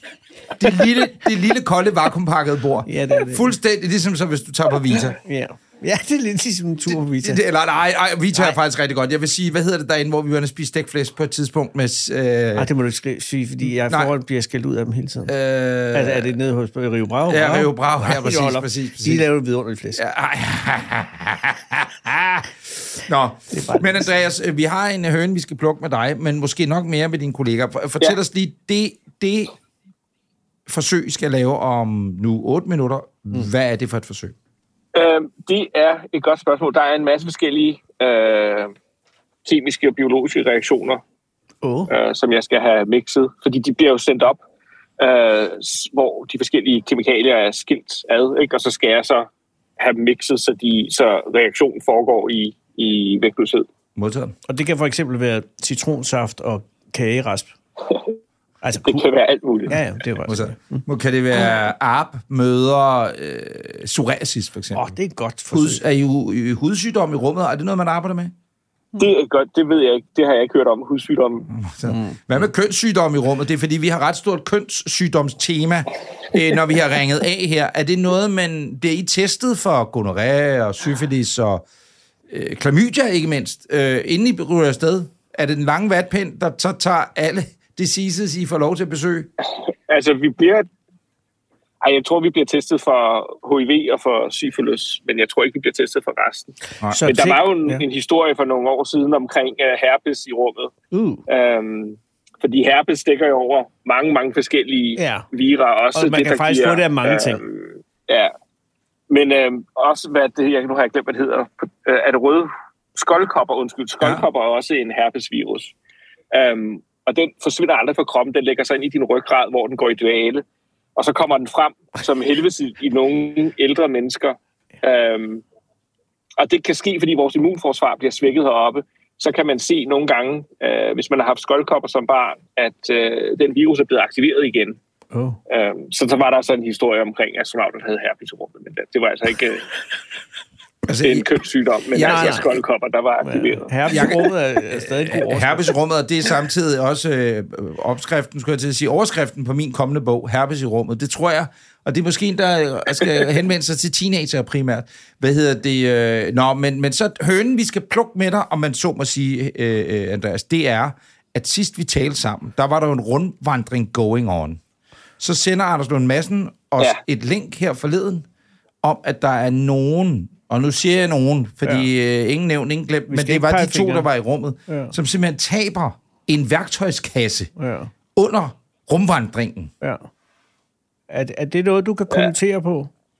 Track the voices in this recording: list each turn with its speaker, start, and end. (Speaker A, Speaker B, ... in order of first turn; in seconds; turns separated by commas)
Speaker A: 0.6-5.2, Speaker B: 2.9-3.5, Speaker B: 5.2-7.4, Speaker A: 6.9-12.7, Speaker B: 12.5-15.3, Speaker A: 15.3-16.3, Speaker B: 15.9-20.0, Speaker A: 17.3-19.3, Speaker A: 19.9-29.5, Speaker B: 23.5-24.1, Speaker A: 30.7-34.3, Speaker C: 34.9-38.7, Speaker C: 39.4-41.0, Speaker B: 41.6-41.9, Speaker C: 41.9-44.4, Speaker C: 45.0-53.6, Speaker A: 54.0-54.3, Speaker B: 54.5-57.5, Speaker C: 57.9-58.1, Speaker B: 58.6-59.0, Speaker C: 58.8-59.8, Speaker B: 59.7-60.8, Speaker A: 60.2-64.9, Speaker B: 64.7-65.8, Speaker A: 65.5-68.3, Speaker C: 69.0-71.5, Speaker A: 71.5-81.6, Speaker B: 71.8-72.4, Speaker A: 82.3-89.3, Speaker C: 89.9-90.7, Speaker C: 91.8-96.5, Speaker B: 96.9-97.8, Speaker C: 97.0-100.7, Speaker B: 100.9-101.2, Speaker C: 101.3-108.3, Speaker B: 105.0-105.2, Speaker B: 105.9-107.4, Speaker C: 109.1-115.7, Speaker C: 116.3-120.4, Speaker C: 121.0-125.4, Speaker C: 126.4-134.8, Speaker B: 135.1-135.4, Speaker C: 135.5-139.7, Speaker A: 140.9-141.3, Speaker C: 141.0-143.9, Speaker A: 141.9-142.6, Speaker B: 142.0-142.4, Speaker B: 143.2-145.7, Speaker A: 143.9-164.6, Speaker A: 165.2-168.2, Speaker A: 168.8-177.5, Speaker B: 173.1-174.1, Speaker B: 174.7-174.9, Speaker B: 177.6-177.9, Speaker A: 178.1-179.7, Speaker B: 179.8-180.1, Speaker B: 181.1-182.9